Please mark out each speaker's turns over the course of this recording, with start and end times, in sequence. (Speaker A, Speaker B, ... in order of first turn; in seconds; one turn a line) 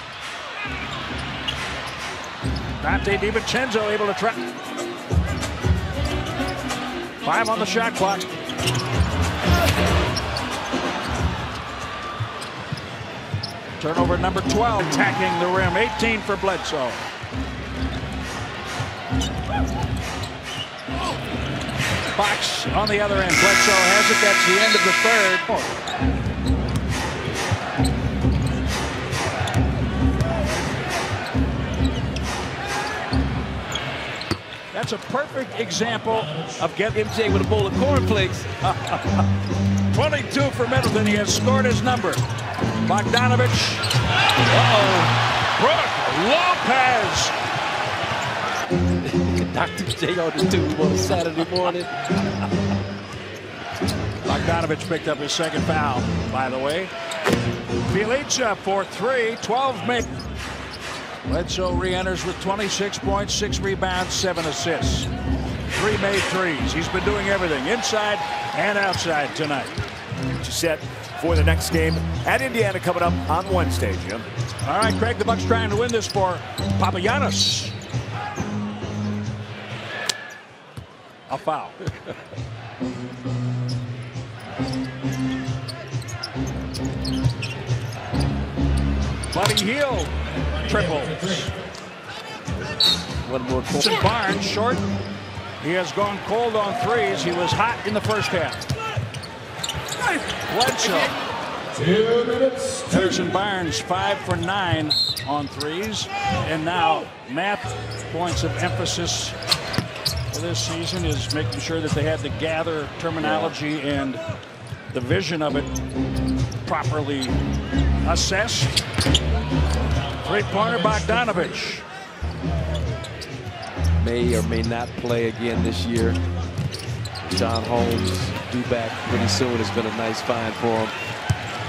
Speaker A: 2.8-4.5
Speaker A: 7.2-8.3
Speaker A: 13.8-17.1
Speaker A: 22.1-25.7
Speaker A: 34.7-37.0
Speaker B: 36.9-38.5
Speaker A: 38.6-39.3
Speaker A: 39.9-42.2
Speaker A: 42.8-43.9
Speaker B: 44.5-45.1
Speaker A: 45.6-47.3
Speaker B: 49.0-51.9
Speaker A: 54.2-56.9
Speaker A: 57.9-60.1
Speaker A: 61.2-65.1
Speaker A: 65.7-69.7
Speaker C: 70.4-74.3
Speaker A: 74.6-77.7
Speaker A: 81.3-81.8
Speaker A: 89.3-91.5
Speaker B: 93.1-94.0
Speaker A: 93.7-94.8
Speaker A: 95.6-98.7
Speaker A: 100.4-101.1
Speaker C: 102.0-102.7
Speaker A: 102.7-109.3
Speaker A: 110.3-114.2
Speaker B: 113.2-113.5
Speaker A: 114.9-115.7
Speaker A: 116.6-117.4
Speaker A: 118.0-118.8
Speaker A: 120.2-121.8
Speaker B: 124.0-126.2
Speaker B: 127.2-130.9